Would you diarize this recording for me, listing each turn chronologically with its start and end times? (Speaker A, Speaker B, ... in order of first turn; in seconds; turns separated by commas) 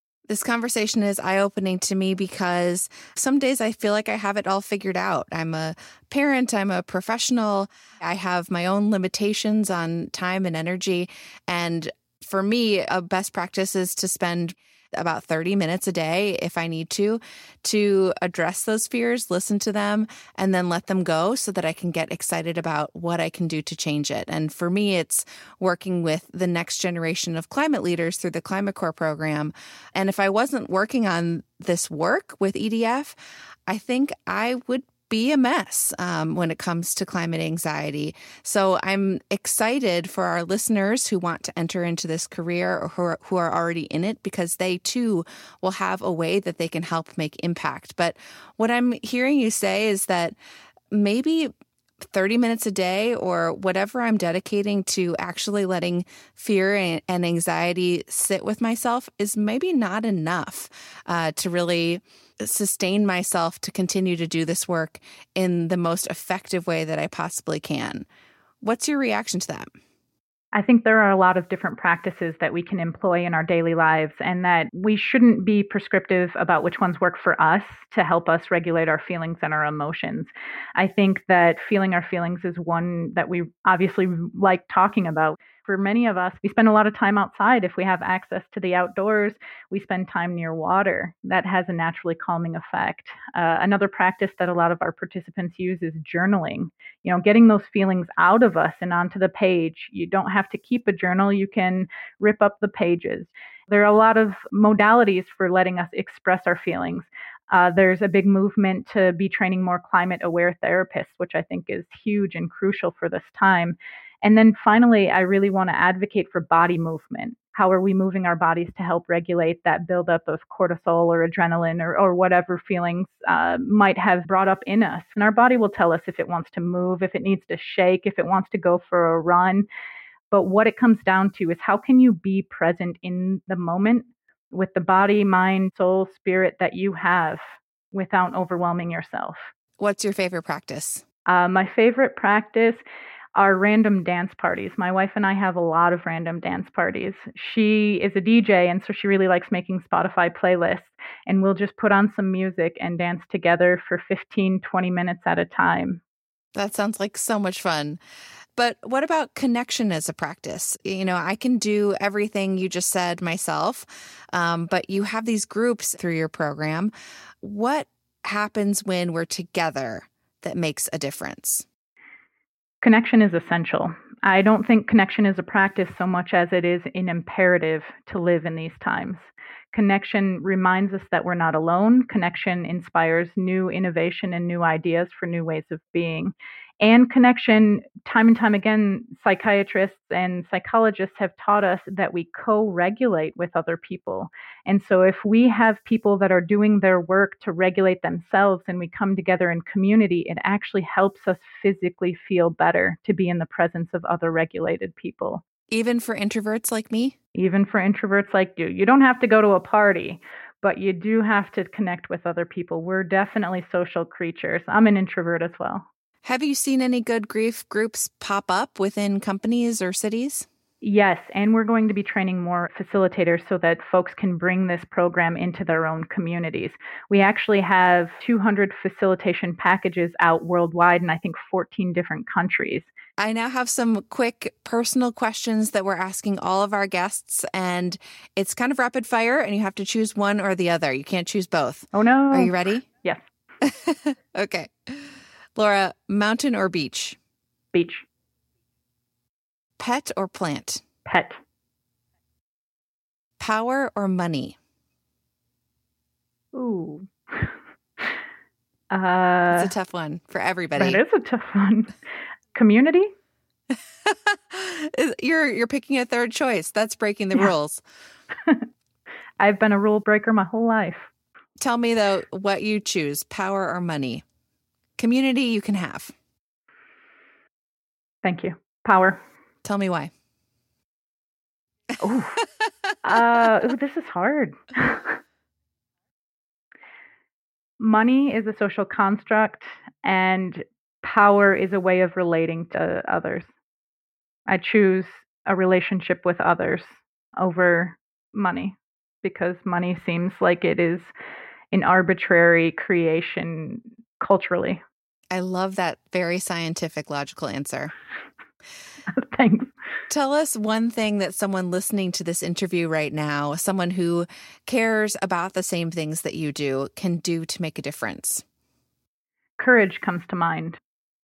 Speaker A: 0.3-33.1, Speaker A: 33.7-50.4, Speaker A: 50.9-68.1, Speaker A: 68.6-69.7, Speaker B: 70.5-129.7, Speaker B: 130.3-139.5, Speaker A: 139.8-141.0, Speaker B: 141.3-142.8, Speaker B: 143.4-156.0, Speaker A: 156.6-158.0, Speaker A: 158.6-166.9, Speaker A: 167.4-171.7, Speaker B: 172.8-205.4, Speaker A: 205.7-207.2, Speaker B: 207.3-215.9, Speaker A: 216.2-220.5, Speaker B: 220.8-232.9, Speaker A: 233.2-242.9, Speaker B: 241.9-243.2, Speaker A: 243.6-247.2, Speaker B: 247.7-248.1, Speaker A: 249.8-250.8, Speaker B: 251.1-251.4, Speaker A: 253.4-254.6, Speaker B: 256.5-258.2, Speaker B: 258.9-259.7, Speaker A: 259.5-261.0, Speaker B: 260.8-261.9, Speaker B: 262.5-263.1, Speaker A: 263.7-267.8, Speaker B: 268.4-268.7, Speaker B: 269.4-271.1, Speaker A: 271.6-274.2, Speaker A: 275.0-276.1, Speaker B: 278.2-279.2, Speaker A: 279.6-280.1, Speaker B: 282.0-282.4, Speaker B: 283.0-285.2, Speaker B: 287.8-293.5, Speaker B: 294.5-301.1, Speaker B: 301.7-304.8, Speaker A: 305.3-307.9, Speaker B: 309.1-309.7, Speaker A: 310.1-318.4, Speaker B: 319.6-320.8